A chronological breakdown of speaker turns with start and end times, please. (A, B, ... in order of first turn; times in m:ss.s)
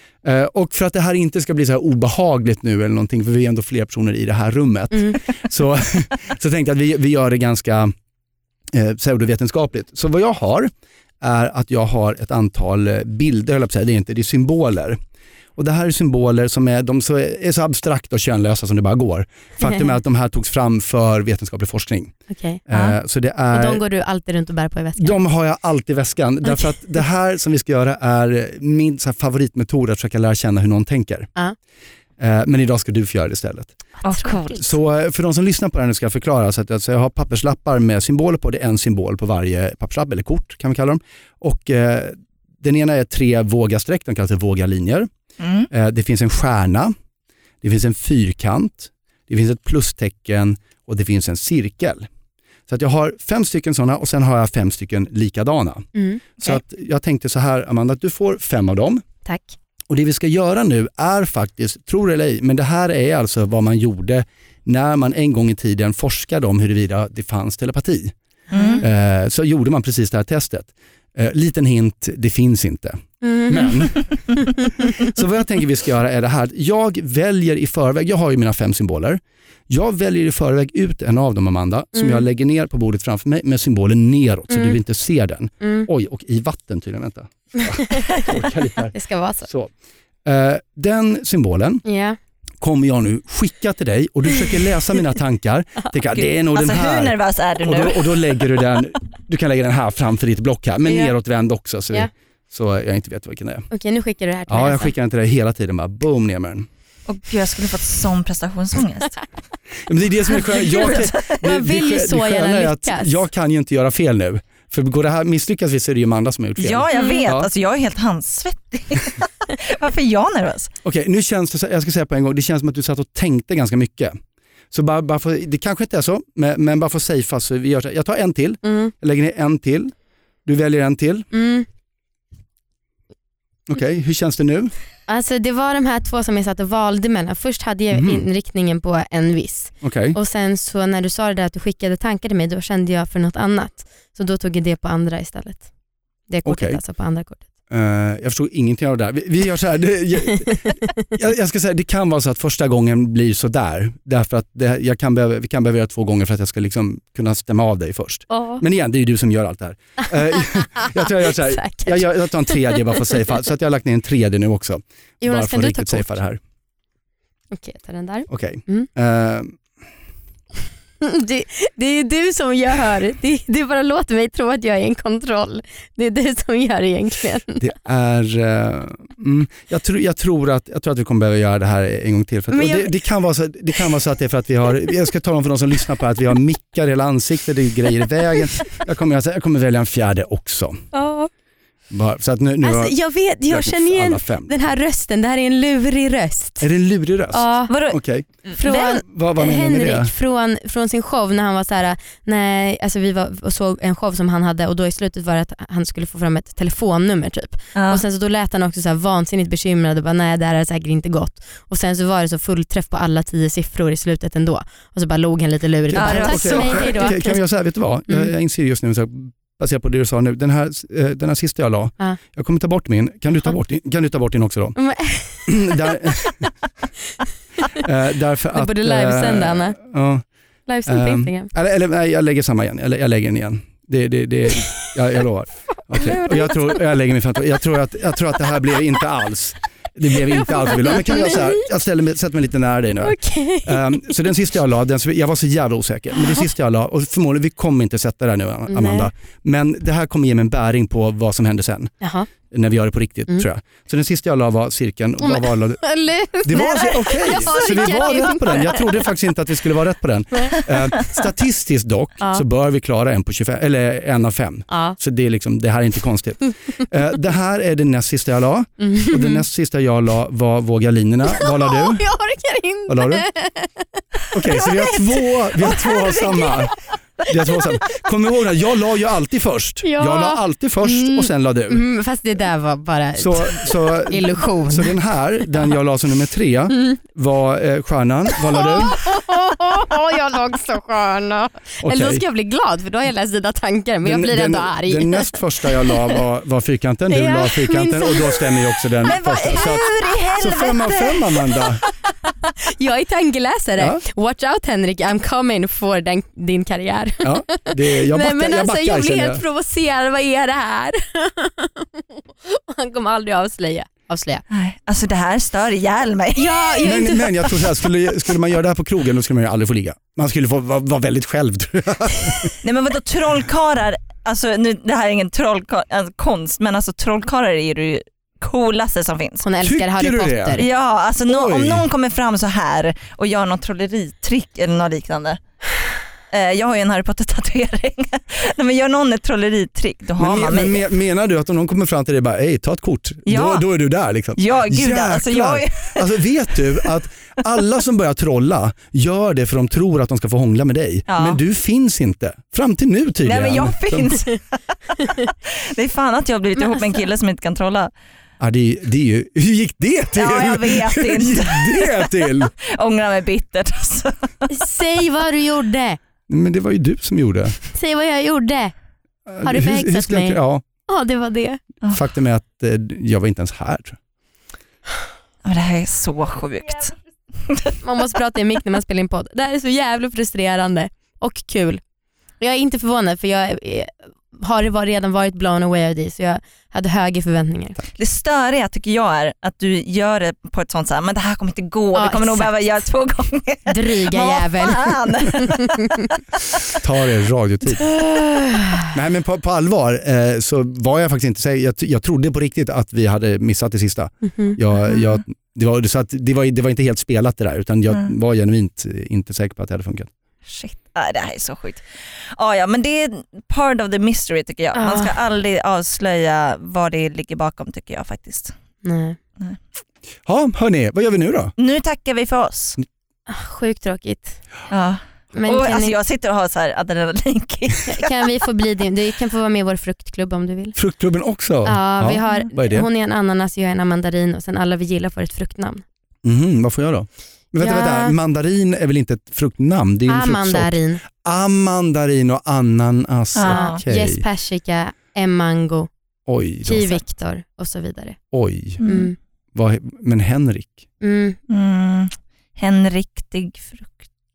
0:00.2-0:07.9 A
0:08.7-0:15.0 A
0:15.6-0:22.1 A
0:19.6-0:19.9 B
0:22.3-0:22.6 B
0:22.7-0:23.8 A
0:22.7-0:23.0 C
0:23.5-0:25.2 B
0:25.0-0:31.3 A
0:32.2-0:33.8 A
0:34.0-0:34.7 C
0:34.5-0:45.1 A
0:45.4-0:45.7 C
0:45.7-0:46.9 A
0:47.6-0:52.1 A
0:52.7-0:59.0 A
0:55.9-0:56.3 B
0:59.2-0:59.5 B
0:59.9-1:08.1 A
1:08.5-1:08.8 C
1:08.5-1:08.8 B
1:08.8-1:14.2 A
1:13.2-1:14.7 B
1:14.8-1:28.9 A
1:21.9-1:22.2 B
1:24.5-1:24.8 B
1:25.6-1:25.9 B
1:28.9-1:29.5 B
1:29.4-1:29.7 A
1:30.2-1:31.8 A
1:31.8-1:32.2 B
1:32.6-1:43.7 A
1:36.1-1:38.2 C
1:43.7-1:44.9 B
1:44.5-1:46.7 A
1:47.1-1:49.2 C
1:49.8-1:57.5 A
1:50.5-1:51.3 C
1:51.3-1:53.2 B
1:56.6-2:00.7 C
1:56.9-1:57.2 B
2:00.8-2:04.1 A
2:04.7-2:11.3 A
2:08.6-2:08.9 B
2:11.3-2:11.7 B
2:13.7-2:14.7 A
2:15.1-2:25.7 B
2:17.9-2:18.2 A
2:19.8-2:20.2 A
2:26.3-2:27.5 B
2:26.4-2:26.8 A
2:27.7-2:46.4 A
2:38.3-2:38.6 B
2:40.4-2:42.8 B
2:45.2-2:46.2 B
2:47.5-2:48.9 B
2:48.3-2:49.6 A
2:51.0-2:57.6 B
2:57.6-3:10.8 A
3:02.5-3:02.9 B
3:10.9-3:11.3 B
3:11.9-3:13.0 A
3:12.6-3:16.7 B
3:13.5-3:14.5 A
3:16.6-3:20.1 A
3:17.3-3:17.7 B
3:17.7-3:18.6 C
3:18.5-3:37.4 B
3:27.7-3:28.0 C
3:35.9-3:46.5 A
3:35.9-3:37.1 C
3:44.8-3:45.8 B
3:47.8-3:50.3 A
3:48.5-3:49.8 B
3:50.7-3:51.5 B
3:50.8-4:11.9 A
3:56.0-3:56.7 B
4:00.8-4:01.6 B
4:03.0-4:03.9 B
4:08.7-4:09.1 B
4:12.0-4:12.3 B
4:12.4-4:15.8 A
4:15.2-4:19.0 B
4:16.4-4:32.1 A
4:16.5-4:18.8 C
4:20.3-4:20.7 B
4:24.7-4:25.0 B
4:28.8-4:29.4 B
4:31.2-4:34.0 B
4:32.9-4:33.2 A
4:34.3-4:41.8 A
4:34.6-4:36.4 C
4:36.0-4:36.5 B
4:39.8-4:45.0 B
4:43.2-4:49.0 A
4:46.7-4:47.0 B
4:48.4-4:56.1 B
4:51.8-4:52.2 A
4:54.0-4:59.8 A
4:57.1-5:01.7 B
4:59.0-5:01.3 C
5:00.4-5:01.8 A
5:02.3-5:14.4 B
5:07.2-5:09.4 A
5:14.5-5:16.8 C
5:16.4-5:17.7 B
5:16.8-5:22.5 A
5:22.6-5:29.4 C
5:29.4-5:30.7 B
5:29.6-5:30.6 A
5:30.5-5:35.4 C
5:31.2-5:31.8 A
5:36.3-5:40.8 C
5:40.2-5:54.2 A
5:43.2-5:43.7 C
5:44.4-5:46.1 C
5:51.1-5:51.4 C
5:53.2-5:57.9 C
5:58.4-6:02.5 A
6:00.1-6:04.5 C
6:04.5-6:06.0 B
6:06.3-6:07.6 A
6:07.6-6:08.7 B
6:09.3-6:10.6 A
6:09.4-6:11.6 B
6:11.9-6:14.0 A
6:15.4-6:17.8 C
6:17.8-6:21.8 B
6:22.4-6:27.8 B
6:27.9-6:36.1 C
6:31.9-6:32.5 B
6:33.7-6:36.0 B
6:36.8-6:37.8 A
6:38.0-6:38.8 B
6:38.9-6:50.1 A
6:44.2-6:44.6 B
6:44.8-6:45.2 C
6:50.5-6:58.5 C
6:54.7-6:55.1 B
6:58.8-6:59.2 B
7:00.2-7:01.5 A
7:01.6-7:02.8 C
7:03.3-7:04.4 B
7:04.7-7:08.3 C
7:05.3-7:06.0 B
7:07.9-7:10.8 B
7:10.8-7:12.9 A
7:11.6-7:15.8 B
7:16.2-7:24.2 A
7:17.6-7:18.2 B
7:20.1-7:21.0 B
7:23.3-7:23.8 C
7:23.5-7:25.9 B
7:26.3-7:27.0 A
7:26.6-7:28.2 B
7:28.3-7:28.8 A
7:28.8-7:29.1 C
7:28.8-7:29.2 B
7:29.5-7:30.8 A
7:31.0-7:31.4 B
7:31.5-7:34.1 C